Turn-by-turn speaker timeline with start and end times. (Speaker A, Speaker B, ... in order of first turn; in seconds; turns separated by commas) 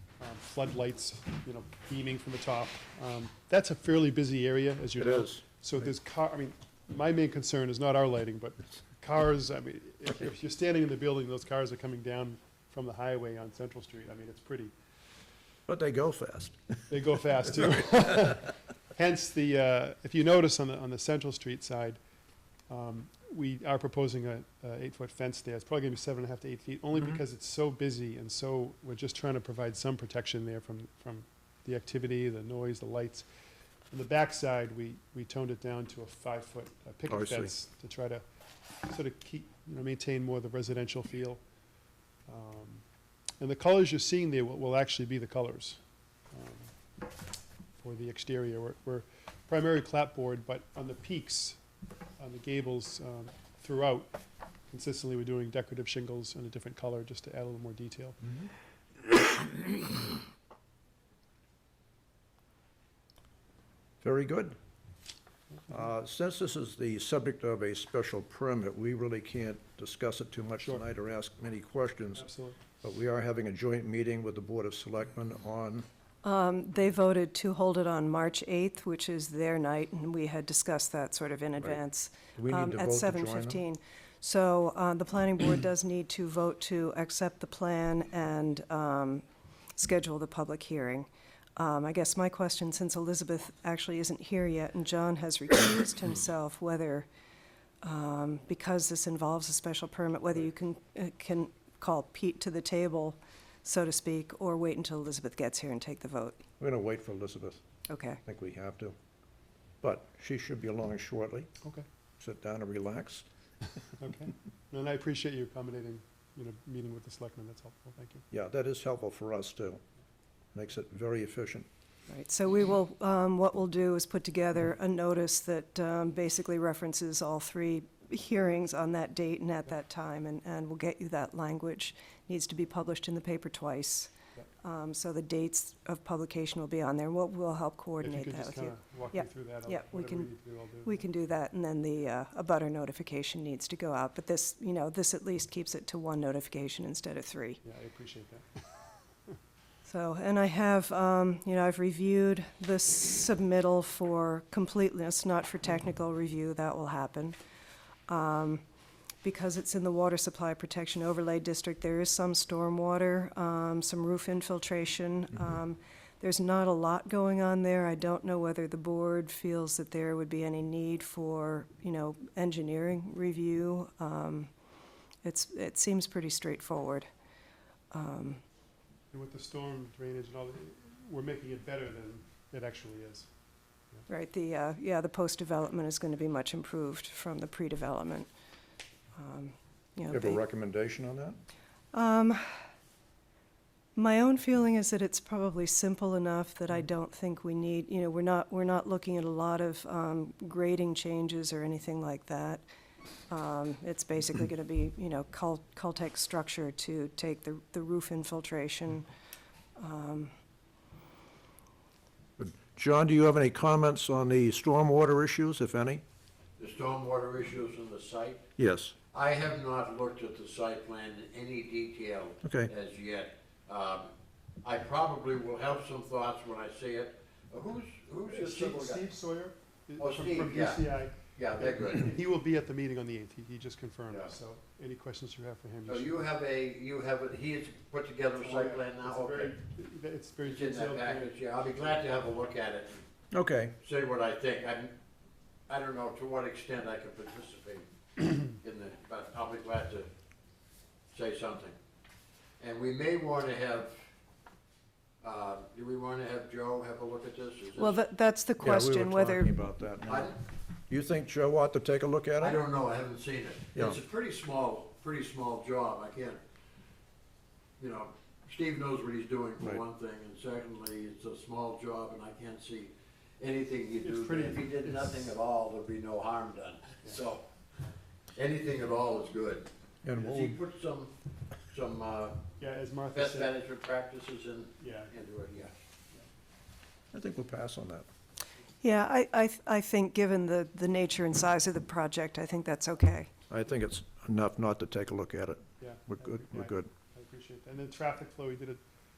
Speaker A: 0.2-14.7, Speaker B: 5.0-5.4, Speaker B: 15.7-16.9, Speaker A: 16.9-22.0, Speaker A: 22.7-33.3, Speaker A: 33.9-38.2, Speaker B: 37.1-37.5, Speaker A: 38.9-41.4, Speaker A: 42.3-42.8, Speaker A: 43.4-45.8, Speaker A: 46.3-46.7, Speaker A: 47.8-51.6, Speaker A: 52.2-54.2, Speaker A: 54.7-58.2, Speaker B: 64.0-64.6, Speaker B: 65.7-72.2, Speaker A: 72.1-72.6, Speaker B: 72.8-75.9, Speaker C: 76.2-89.2, Speaker B: 82.3-83.6, Speaker C: 89.8-97.1, Speaker C: 97.8-106.4, Speaker B: 106.6-107.6, Speaker C: 107.9-108.2, Speaker B: 108.2-108.9, Speaker B: 109.8-111.5, Speaker B: 112.2-113.2, Speaker A: 114.0-118.2, Speaker B: 118.3-119.8, Speaker B: 120.5-121.7, Speaker C: 122.1-134.1, Speaker C: 134.6-140.3, Speaker A: 138.0-141.0, Speaker C: 140.8-147.6, Speaker A: 147.6-148.7, Speaker C: 149.8-157.4, Speaker C: 158.1-158.6, Speaker C: 159.2-174.5, Speaker C: 175.2-177.1, Speaker C: 177.9-178.4, Speaker A: 179.1-183.3, Speaker C: 184.1-188.3, Speaker C: 189.2-190.4, Speaker B: 190.1-191.4, Speaker C: 191.9-192.5, Speaker C: 193.9-202.6, Speaker C: 203.3-209.1, Speaker C: 209.8-210.3, Speaker B: 212.4-216.0, Speaker D: 216.6-218.4, Speaker B: 218.6-218.9, Speaker D: 219.1-224.1, Speaker B: 222.4-222.7, Speaker D: 224.6-229.0, Speaker A: 228.3-236.2, Speaker D: 230.0-232.2, Speaker D: 235.9-239.6, Speaker A: 238.4-241.3, Speaker D: 240.4-243.0, Speaker B: 243.3-243.7, Speaker D: 243.8-244.9, Speaker D: 245.7-250.1, Speaker D: 251.1-251.7, Speaker D: 252.6-254.0, Speaker D: 255.2-258.0, Speaker C: 257.8-259.6, Speaker B: 258.6-260.3, Speaker D: 260.0-260.4, Speaker B: 260.9-262.6, Speaker D: 262.4-266.4, Speaker D: 267.8-277.4, Speaker A: 274.0-275.2, Speaker D: 278.3-281.1, Speaker B: 280.0-280.6, Speaker D: 281.7-282.4, Speaker A: 282.6-283.5, Speaker D: 283.1-285.7, Speaker A: 284.8-285.1, Speaker B: 287.1-288.1, Speaker C: 288.8-293.3, Speaker B: 293.5-296.9, Speaker A: 295.8-298.8